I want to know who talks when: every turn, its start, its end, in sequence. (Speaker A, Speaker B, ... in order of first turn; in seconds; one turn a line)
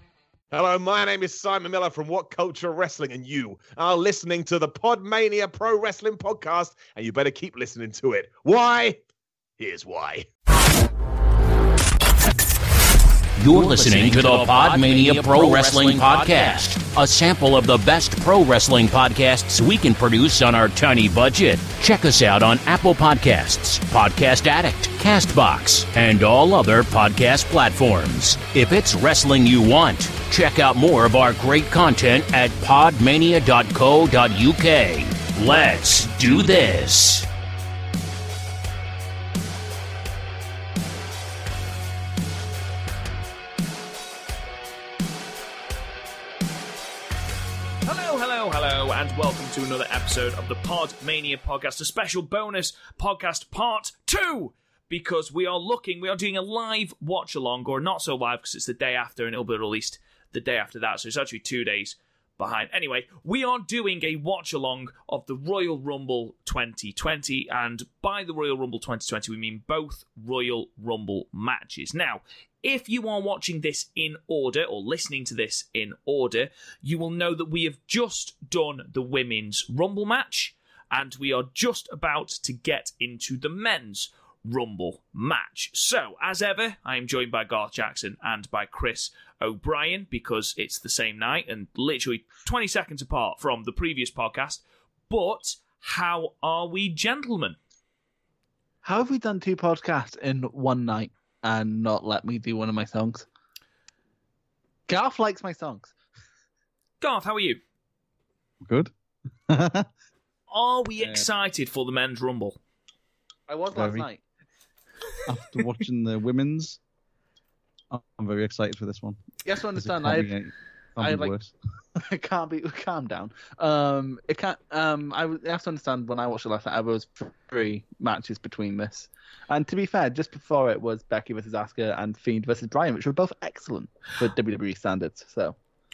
Speaker A: 0.5-9.0
Speaker A: 9.6-10.3
Speaker B: 13.4-37.3
Speaker C: 47.8-97.6
Speaker D: 98.8-103.3
Speaker D: 104.9-105.9
Speaker C: 107.0-107.6
Speaker E: 108.6-108.9
Speaker E: 109.5-109.9
Speaker C: 110.5-112.6
Speaker E: 111.0-111.3
Speaker D: 113.5-114.2
Speaker E: 113.7-114.0
Speaker E: 115.2-116.8
Speaker E: 117.9-119.2
Speaker D: 119.4-120.3
Speaker E: 119.8-121.5
Speaker D: 121.0-121.3
Speaker D: 122.0-135.6